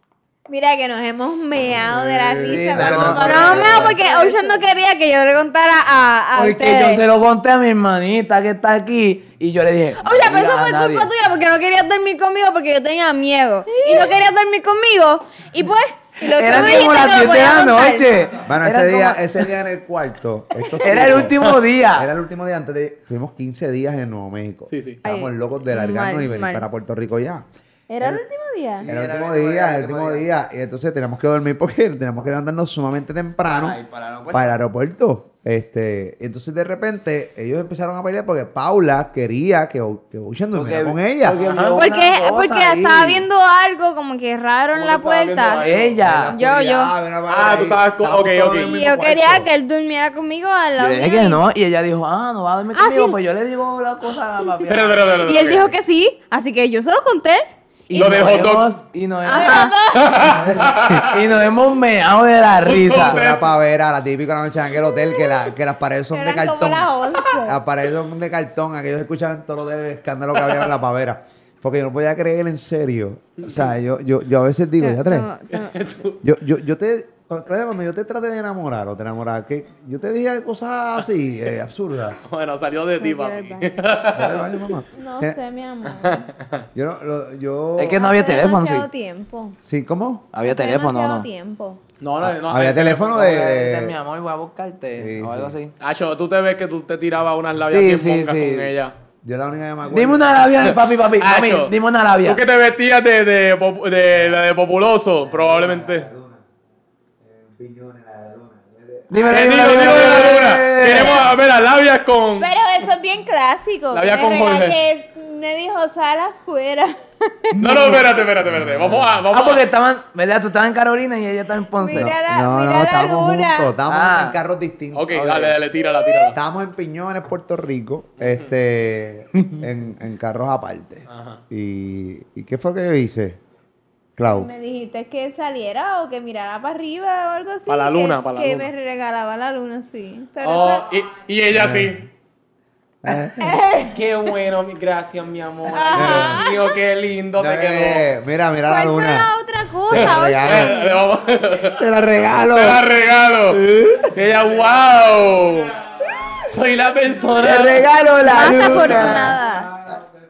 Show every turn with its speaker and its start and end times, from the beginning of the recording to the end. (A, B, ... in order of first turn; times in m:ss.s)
0:00.5-0:04.6 A
0:01.8-0:04.0 B
0:02.5-0:03.8 C
0:03.2-0:07.0 D
0:06.4-0:11.1 C
0:10.0-0:18.1 D
0:13.7-0:14.1 A
0:16.2-0:19.5 C
0:16.4-0:17.2 A
0:18.4-0:27.4 B
0:20.8-0:22.1 C
0:24.7-0:25.0 E
0:25.0-0:26.7 D
0:27.9-0:28.9 A
0:28.8-0:30.3 C
0:28.9-0:33.8 B
0:33.4-0:34.5 C
0:34.3-0:41.4 B
0:40.5-0:43.3 C
0:41.3-0:41.8 E
0:41.8-0:45.7 D
0:44.7-0:46.0 E
0:45.6-0:46.3 C
0:46.0-0:49.5 B
0:46.3-0:46.9 D
0:47.3-0:48.7 E
0:48.5-0:51.4 D
0:50.8-0:55.2 C
0:52.7-0:53.2 D
0:54.7-0:55.8 E
0:55.2-0:57.5 D
0:57.9-0:59.7 C
0:57.9-0:58.7 E
0:59.3-0:59.7 D
0:59.3-1:00.4 A
0:59.9-1:01.3 E
1:00.4-1:03.2 C
1:02.6-1:03.5 E
1:02.9-1:15.3 B
1:06.1-1:07.6 A
1:14.8-1:15.8 D
1:15.5-1:16.2 E
1:16.2-1:22.2 B
1:22.3-1:24.7 E
1:23.0-1:23.8 D
1:24.1-1:25.4 B
1:24.9-1:26.3 A
1:26.0-1:26.6 E
1:26.7-1:28.0 B
1:27.8-1:28.9 C
1:27.9-1:29.6 A
1:29.6-1:30.3 B
1:30.3-1:31.3 C
1:30.4-1:31.8 A
1:32.0-1:33.3 E
1:32.2-1:34.0 B
1:33.2-1:35.7 C
1:35.0-1:35.6 B
1:35.8-1:39.0 E
1:37.7-1:38.7 C
1:39.2-1:40.5 B
1:39.9-1:42.4 C
1:40.6-1:46.1 E
1:45.2-1:46.4 B
1:47.2-1:50.1 B
1:49.1-1:51.3 C
1:49.3-1:52.5 E
1:52.4-1:57.0 A
1:53.9-1:54.8 E
1:57.5-1:58.1 C
1:57.6-1:59.6 E
1:58.4-1:59.2 B
1:59.3-2:02.1 C
2:01.8-2:03.8 A
2:01.9-2:05.5 B
2:03.9-2:04.4 C
2:04.9-2:06.4 E
2:06.3-2:13.4 B
2:08.2-2:08.5 E
2:11.1-2:11.4 E
2:14.2-2:14.5 B
2:14.3-2:21.0 A
2:17.7-2:18.7 E
2:20.4-2:22.0 E
2:21.5-2:22.1 B
2:23.0-2:23.6 B
2:23.4-2:24.0 A
2:23.9-2:28.1 E
2:25.7-2:26.7 A
2:25.9-2:26.4 B
2:27.4-2:29.3 B
2:28.7-2:31.0 D
2:29.9-2:30.8 B
2:29.9-2:31.9 E
2:31.7-2:32.8 B
2:32.5-2:35.8 E
2:33.6-2:34.1 B
2:36.4-2:37.9 E
2:37.4-2:39.3 C
2:38.2-2:39.7 D
2:38.4-2:40.1 B